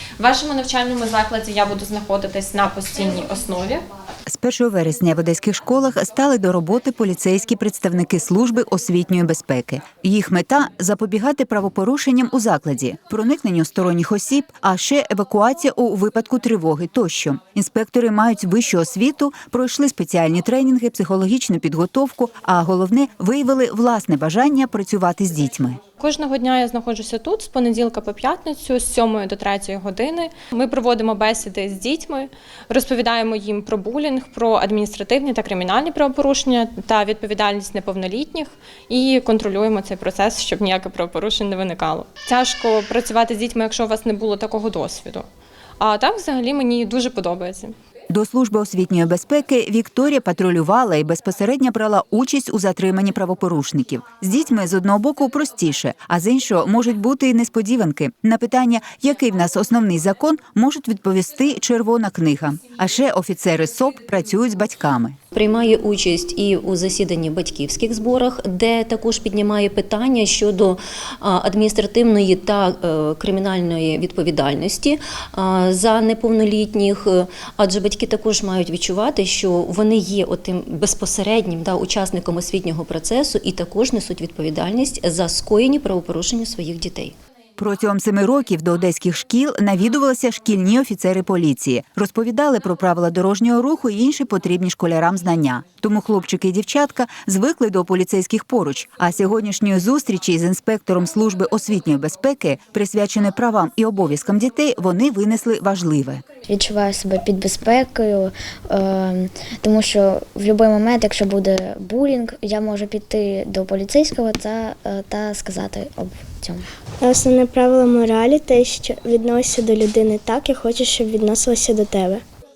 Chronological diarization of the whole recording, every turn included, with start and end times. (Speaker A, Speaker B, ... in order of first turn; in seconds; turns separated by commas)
Speaker A: 0.2-3.8, Speaker B: 4.3-25.8, Speaker A: 26.0-45.2, Speaker A: 45.8-47.7, Speaker B: 48.1-65.2, Speaker C: 65.3-87.2, Speaker B: 87.6-106.2, Speaker D: 106.5-116.7, Speaker E: 117.0-122.2